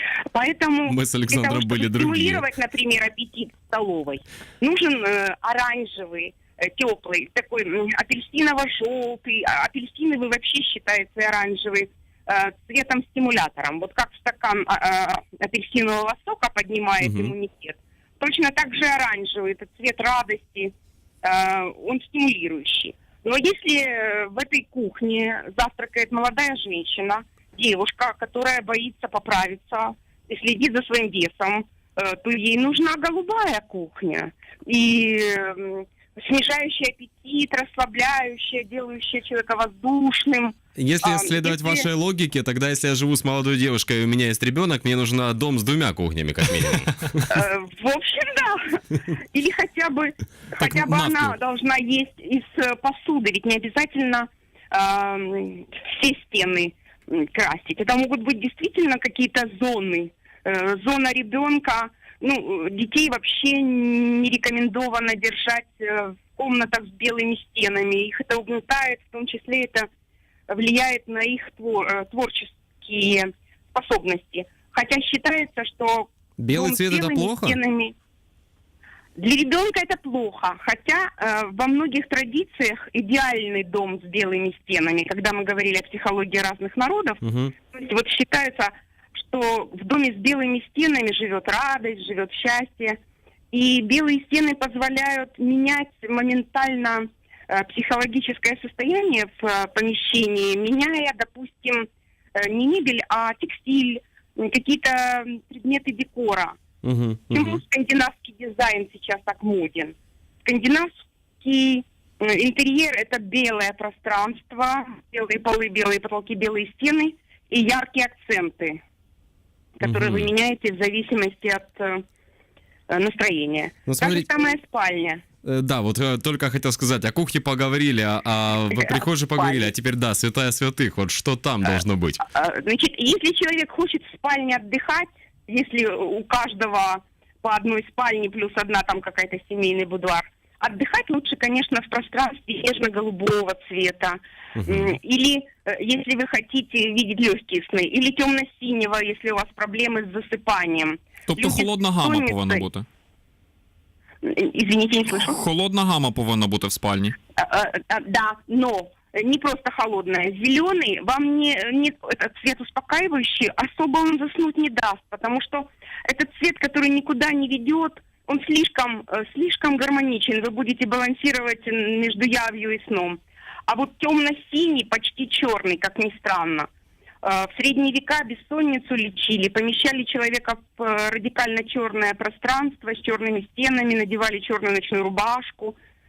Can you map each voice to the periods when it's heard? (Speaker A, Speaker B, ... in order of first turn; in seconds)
Speaker A: 0.3-41.9, 47.3-69.9, 70.5-77.9, 79.2-87.2, 87.7-93.0, 93.5-106.6, 107.3-118.8, 119.8-122.0, 122.9-125.2, 128.7-129.7, 132.2-152.7, 154.2-155.4, 157.4-176.7, 177.2-185.8
Speaker B: 0.9-2.5, 17.0-17.3, 40.8-47.2, 76.4-77.6, 87.2-87.5, 106.8-107.6, 119.8-120.3, 123.9-124.3, 125.4-132.2, 144.6-145.0
Speaker C: 50.6-51.3, 151.3-152.8, 155.1-157.2